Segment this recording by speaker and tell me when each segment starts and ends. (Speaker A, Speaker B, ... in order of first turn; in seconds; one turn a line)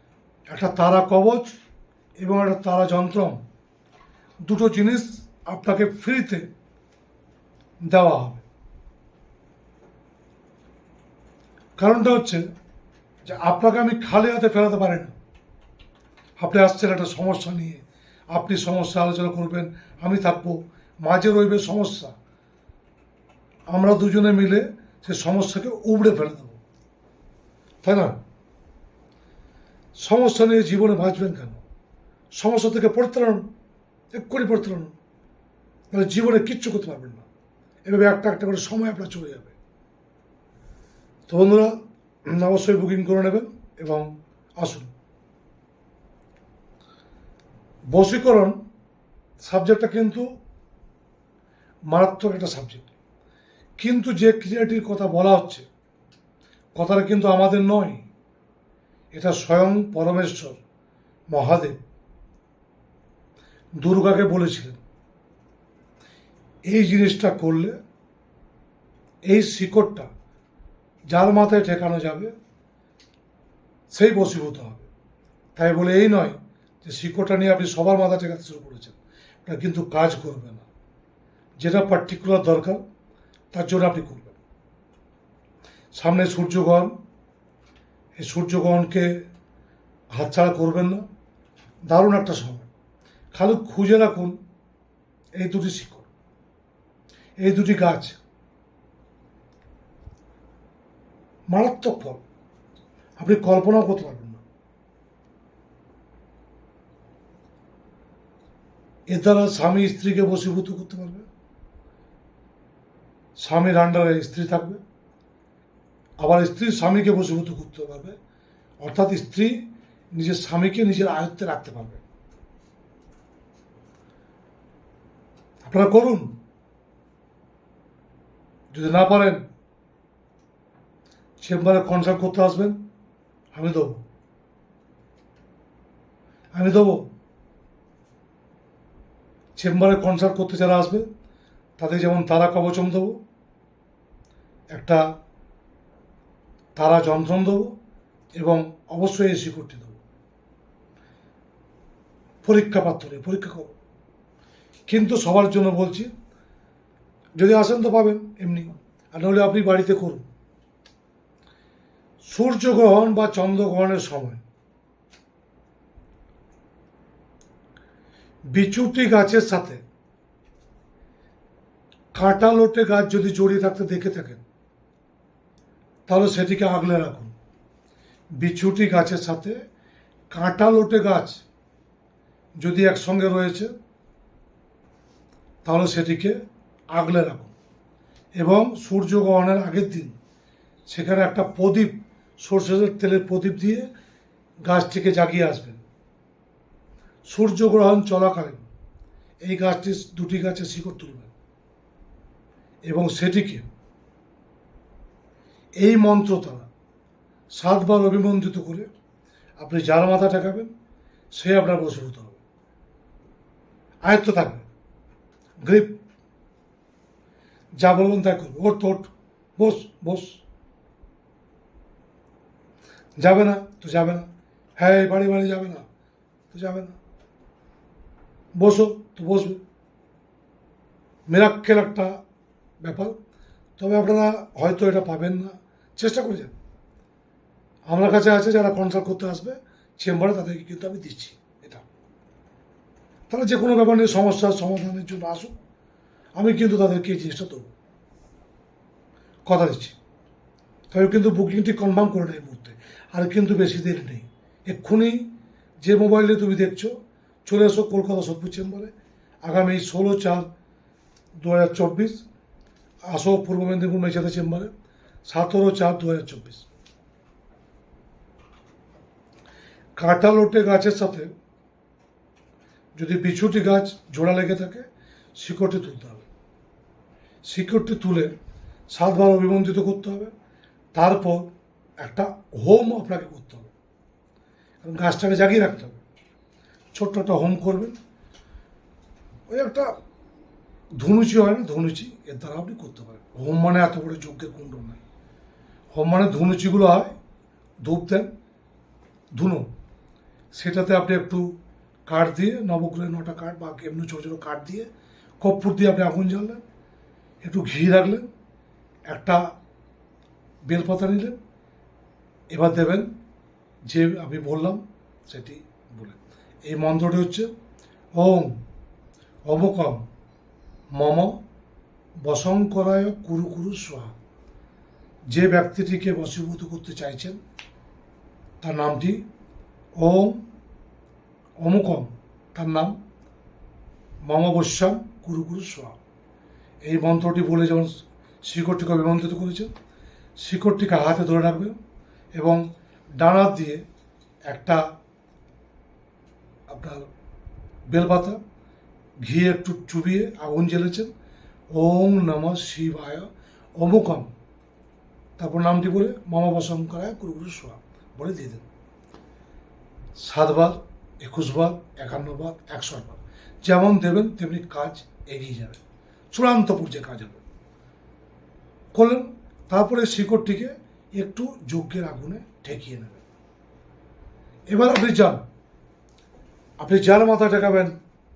Speaker A: 0.5-1.5
Speaker A: 2.2-3.4
Speaker A: 4.4-6.5
Speaker A: 7.8-8.4
Speaker A: 11.8-12.4
Speaker A: 13.2-15.1
Speaker A: 16.4-22.1
Speaker A: 23.7-26.6
Speaker A: 27.8-28.2
Speaker A: 30.0-31.6
Speaker A: 32.4-33.5
Speaker A: 34.1-34.9
Speaker A: 35.9-37.3
Speaker A: 37.9-39.5
Speaker A: 41.3-41.7
Speaker A: 42.3-44.1
Speaker A: 44.6-44.9
Speaker A: 47.9-48.6
Speaker A: 49.4-50.2
Speaker A: 51.9-52.9
Speaker A: 53.8-55.7
Speaker A: 56.8-58.0
Speaker A: 59.1-60.6
Speaker A: 61.3-61.8
Speaker A: 63.8-64.8
Speaker A: 66.7-67.8
Speaker A: 69.3-70.1
Speaker A: 71.1-72.3
Speaker A: 73.9-74.9
Speaker A: 75.6-80.7
Speaker A: 81.6-82.8
Speaker A: 83.5-84.4
Speaker A: 85.9-86.9
Speaker A: 88.2-89.3
Speaker A: 90.1-91.0
Speaker A: 91.9-92.7
Speaker A: 93.3-94.4
Speaker A: 95.4-96.1
Speaker A: 97.4-98.2
Speaker A: 101.5-102.2
Speaker A: 103.2-104.4
Speaker A: 109.1-111.3
Speaker A: 113.4-114.8
Speaker A: 116.2-118.2
Speaker A: 118.8-122.0
Speaker A: 125.6-126.3
Speaker A: 128.7-129.4
Speaker A: 131.4-132.8
Speaker A: 133.5-134.0
Speaker A: 136.5-137.1
Speaker A: 139.6-141.1
Speaker A: 141.8-143.2
Speaker A: 144.7-145.1
Speaker A: 146.8-147.8
Speaker A: 148.4-150.0
Speaker A: 152.4-153.7
Speaker A: 154.9-156.1
Speaker A: 157.4-160.2
Speaker A: 162.2-164.4
Speaker A: 168.5-169.8
Speaker A: 172.1-174.4
Speaker A: 176.1-177.3
Speaker A: 178.4-179.6
Speaker A: 180.3-181.4
Speaker A: 182.6-183.7
Speaker A: 185.6-186.4
Speaker A: 186.9-187.5
Speaker A: 188.4-190.1
Speaker A: 190.9-193.9
Speaker A: 194.7-195.8
Speaker A: 197.2-198.7
Speaker A: 199.4-201.3
Speaker A: 202.9-203.7
Speaker A: 205.8-206.7
Speaker A: 207.6-208.9
Speaker A: 209.6-210.7
Speaker A: 211.3-212.4
Speaker A: 214.0-214.6
Speaker A: 215.6-216.0
Speaker A: 217.8-220.4
Speaker A: 223.2-225.8
Speaker A: 226.5-227.0
Speaker A: 228.6-229.6
Speaker A: 231.3-232.2
Speaker A: 232.8-233.2
Speaker A: 233.8-236.5
Speaker A: 237.9-241.8
Speaker A: 243.3-245.5
Speaker A: 246.3-247.7
Speaker A: 249.4-250.0
Speaker A: 250.9-256.9
Speaker A: 257.4-258.9
Speaker A: 259.4-260.5
Speaker A: 261.4-262.2
Speaker A: 263.1-264.7
Speaker A: 265.2-266.7
Speaker A: 270.0-271.3
Speaker A: 272.9-274.8
Speaker A: 275.4-276.2
Speaker A: 277.4-278.3
Speaker A: 278.9-280.3
Speaker A: 280.9-283.7
Speaker A: 284.8-286.0
Speaker A: 286.9-287.9
Speaker A: 289.5-289.9
Speaker A: 291.0-295.0
Speaker A: 295.9-297.1
Speaker A: 297.8-298.3
Speaker A: 299.3-299.7
Speaker A: 300.5-301.5
Speaker A: 302.1-304.9
Speaker A: 305.4-306.6
Speaker A: 307.4-308.3
Speaker A: 309.1-309.4
Speaker A: 310.7-311.4
Speaker A: 312.5-313.1
Speaker A: 313.9-317.5
Speaker A: 318.2-318.6
Speaker A: 319.4-320.1
Speaker A: 320.9-321.4
Speaker A: 322.2-324.1
Speaker A: 325.3-327.4
Speaker A: 328.6-329.2
Speaker A: 330.0-330.4
Speaker A: 331.6-332.9
Speaker A: 334.2-335.9
Speaker A: 336.8-339.7
Speaker A: 340.4-341.8
Speaker A: 342.4-342.6
Speaker A: 343.2-343.8
Speaker A: 344.5-344.8
Speaker A: 346.7-347.1
Speaker A: 347.9-348.4
Speaker A: 349.2-351.1
Speaker A: 351.7-354.3
Speaker A: 355.4-358.7
Speaker A: 360.2-367.4
Speaker A: 368.9-373.2
Speaker A: 374.7-375.4
Speaker A: 376.8-377.9